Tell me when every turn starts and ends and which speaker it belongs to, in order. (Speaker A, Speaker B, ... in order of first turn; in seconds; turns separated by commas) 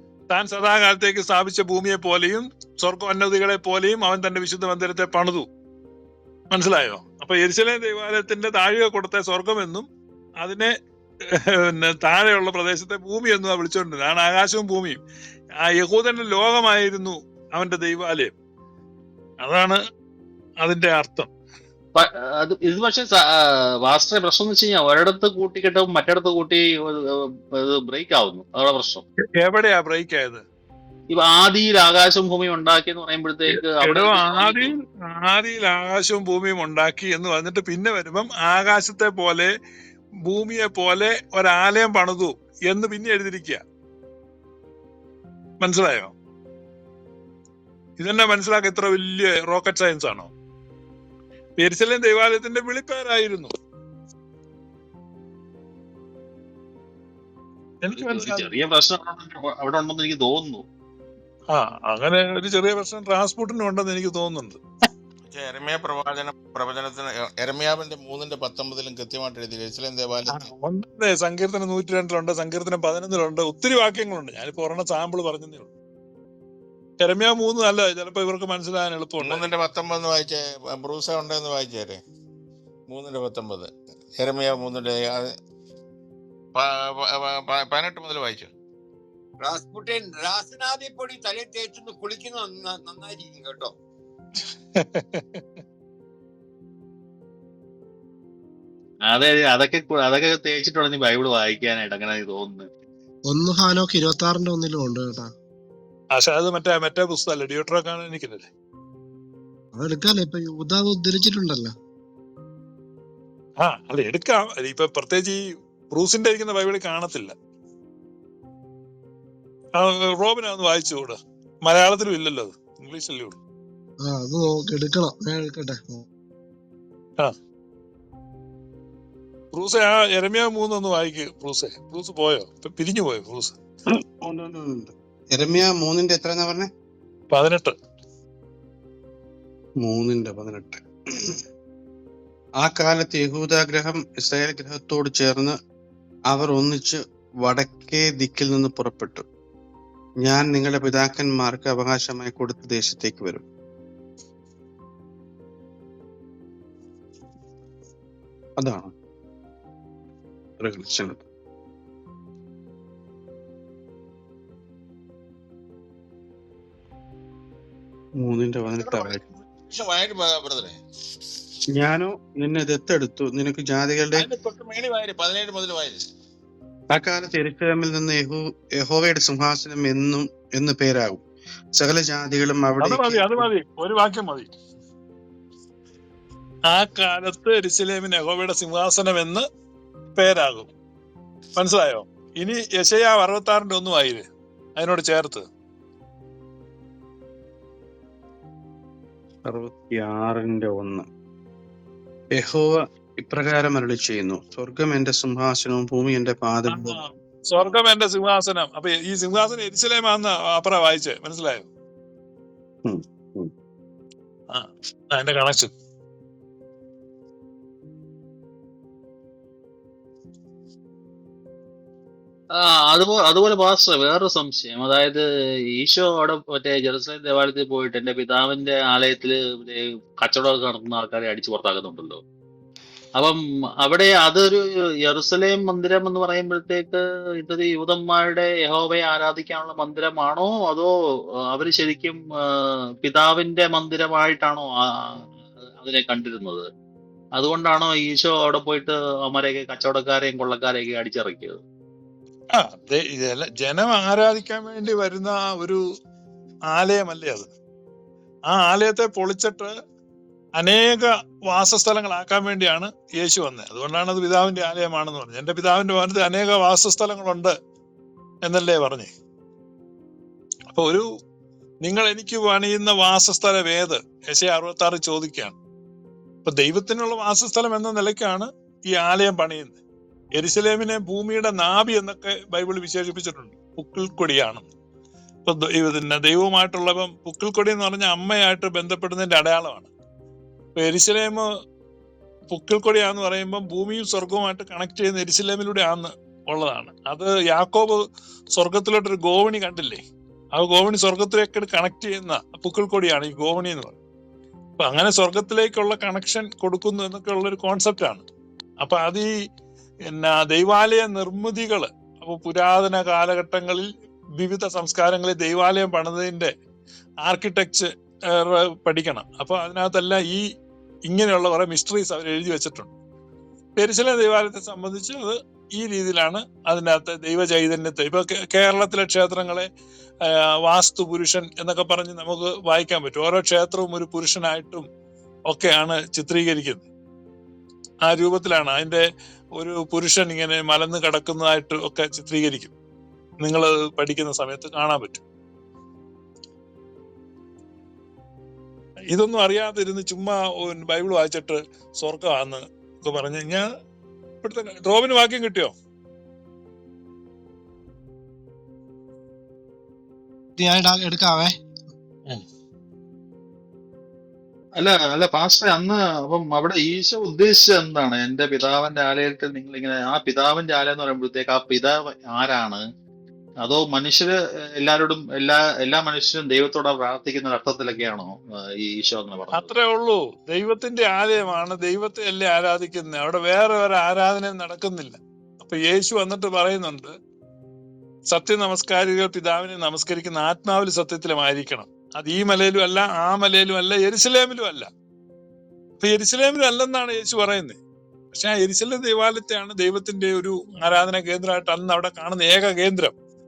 Speaker A: 0.3-5.5, Speaker A: 6.5-9.9, Speaker A: 10.4-10.7, Speaker A: 11.2-15.0, Speaker A: 15.6-18.3, Speaker A: 19.4-19.8, Speaker A: 20.6-21.3, Speaker B: 22.0-27.0, Speaker B: 27.6-29.0, Speaker A: 29.4-30.4, Speaker B: 31.1-34.7, Speaker A: 33.5-39.5, Speaker A: 40.2-43.6, Speaker A: 45.6-46.1, Speaker A: 48.0-50.3, Speaker A: 51.6-53.5, Speaker A: 57.8-58.5, Speaker B: 57.9-60.6, Speaker A: 61.5-64.6, Speaker C: 65.3-70.5, Speaker A: 70.3-75.7, Speaker A: 77.0-79.4, Speaker C: 79.2-82.0, Speaker C: 82.9-85.2, Speaker C: 86.5-88.5, Speaker D: 89.4-93.7, Speaker A: 94.7-95.4, Speaker B: 99.1-102.6, Speaker E: 103.3-105.3, Speaker A: 106.1-108.5, Speaker E: 109.7-111.7, Speaker A: 113.6-117.3, Speaker A: 119.8-123.4, Speaker E: 124.0-126.0, Speaker A: 129.5-133.6, Speaker F: 133.9-136.7, Speaker A: 137.3-137.7, Speaker F: 139.8-141.3, Speaker F: 142.6-145.5, Speaker F: 146.3-149.2, Speaker F: 150.2-153.4, Speaker F: 158.6-158.9, Speaker F: 160.6-161.2, Speaker F: 168.2-169.2, Speaker C: 168.8-170.8, Speaker F: 171.8-174.3, Speaker C: 174.1-176.0, Speaker F: 176.9-181.2, Speaker F: 181.7-183.5, Speaker A: 182.8-184.5, Speaker A: 186.7-189.4, Speaker A: 190.1-190.7, Speaker A: 191.6-194.2, Speaker A: 194.8-195.4, Speaker F: 199.5-201.0, Speaker F: 202.3-207.0, Speaker A: 206.7-211.7, Speaker F: 212.8-213.5, Speaker A: 214.5-215.7, Speaker B: 222.6-225.2, Speaker B: 225.8-232.2, Speaker B: 233.2-240.9, Speaker B: 241.5-246.7, Speaker B: 247.4-251.6, Speaker A: 252.5-255.8, Speaker A: 256.7-257.5, Speaker A: 258.5-259.7, Speaker A: 260.6-267.5, Speaker A: 268.4-269.1, Speaker A: 270.7-271.0, Speaker A: 271.8-275.5, Speaker A: 276.4-279.8, Speaker A: 280.4-284.7, Speaker A: 285.4-289.9, Speaker A: 290.8-291.4, Speaker A: 292.5-298.0, Speaker A: 298.5-300.0, Speaker A: 300.5-304.0, Speaker A: 304.8-308.2, Speaker A: 308.8-309.3, Speaker A: 310.1-313.9, Speaker A: 314.4-316.5, Speaker A: 317.2-320.4, Speaker A: 321.1-322.9, Speaker A: 323.8-329.7, Speaker A: 330.2-334.8, Speaker A: 335.5-336.9, Speaker A: 338.0-339.0, Speaker A: 339.6-342.7, Speaker A: 343.4-345.2, Speaker A: 349.1-353.6, Speaker A: 354.4-355.7, Speaker E: 360.6-361.6, Speaker B: 364.8-372.8, Speaker B: 373.6-378.3, Speaker B: 378.8-379.7, Speaker A: 379.5-387.1, Speaker A: 388.3-394.9, Speaker A: 396.0-397.8, Speaker A: 398.3-403.1